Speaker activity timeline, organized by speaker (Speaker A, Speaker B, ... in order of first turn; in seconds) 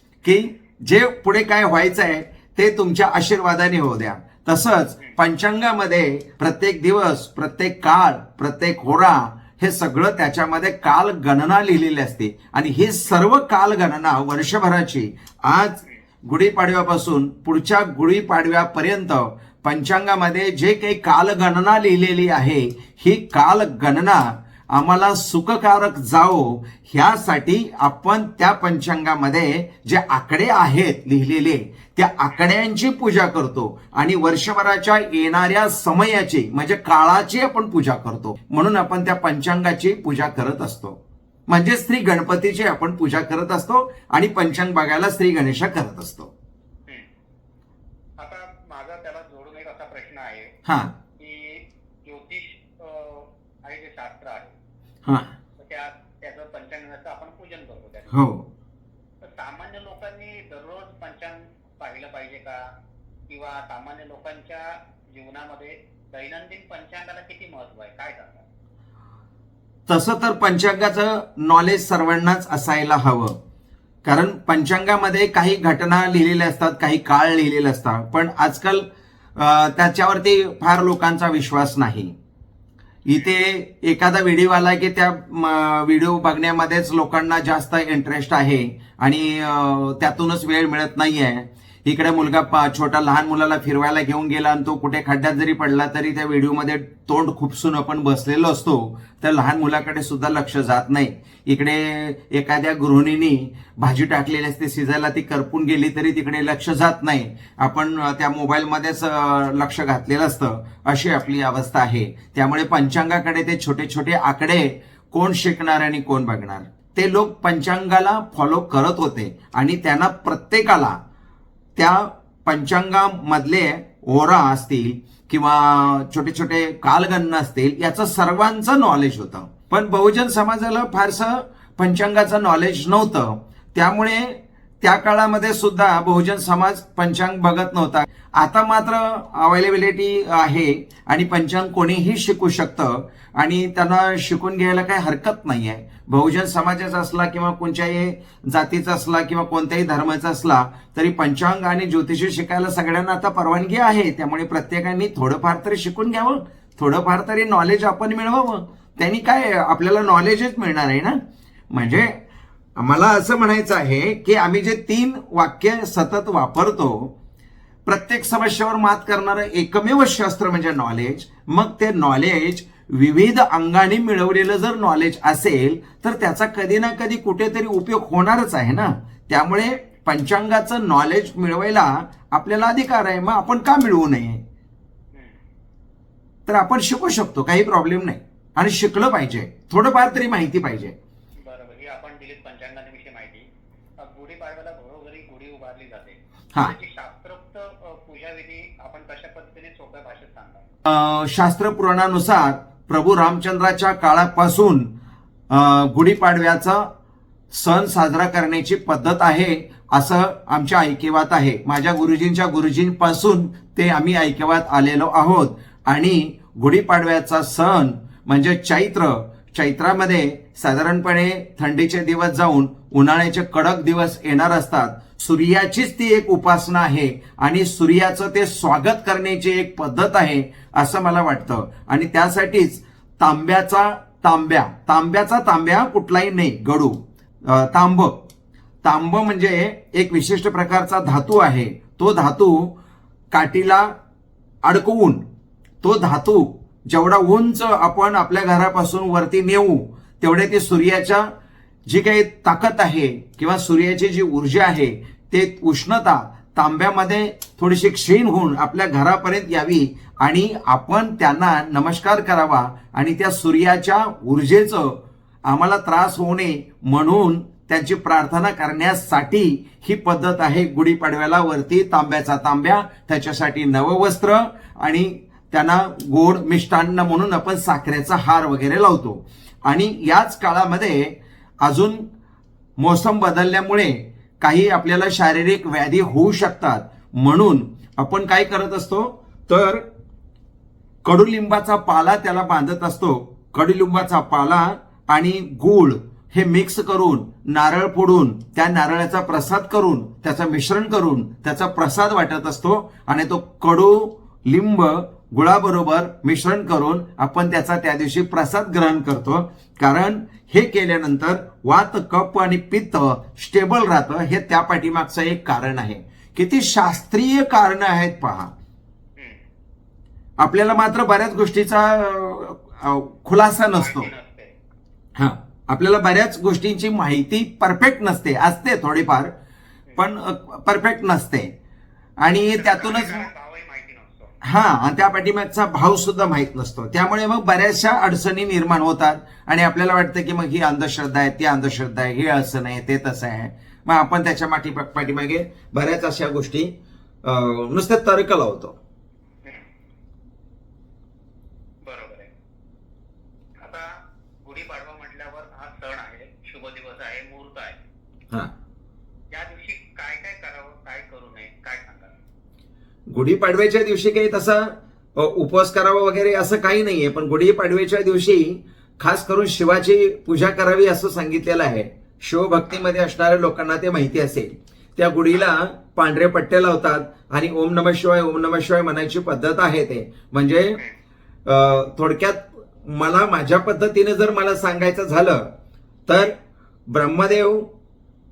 Speaker A: 0.2-46.3, 50.6-50.9, 55.0-55.4, 58.1-58.5, 69.9-73.3, 74.0-82.1, 83.0-121.0, 121.8-161.2, 161.7-162.1, 162.8-167.1, 167.8-184.4, 186.4-190.9, 200.8-204.9, 205.5-206.9, 207.5-238.2, 238.8-242.8, 243.3-243.9, 244.6-245.2, 245.8-251.3, 251.9-282.0, 282.8-289.8, 291.0-318.5, 320.4-324.1, 325.1-329.3, 330.0-331.5, 332.2-333.3, 334.4-346.7, 347.2-348.8, 363.1-380.8, 381.4-385.5, 386.1-386.3, 386.9-387.7
Speaker B: 48.2-50.5, 51.2-54.5, 55.6-58.2, 59.2-62.6, 63.3-68.4, 191.4-193.5, 194.0-200.6, 323.7-324.5, 332.5-334.4, 351.8-352.3, 353.6-357.8, 359.3-362.2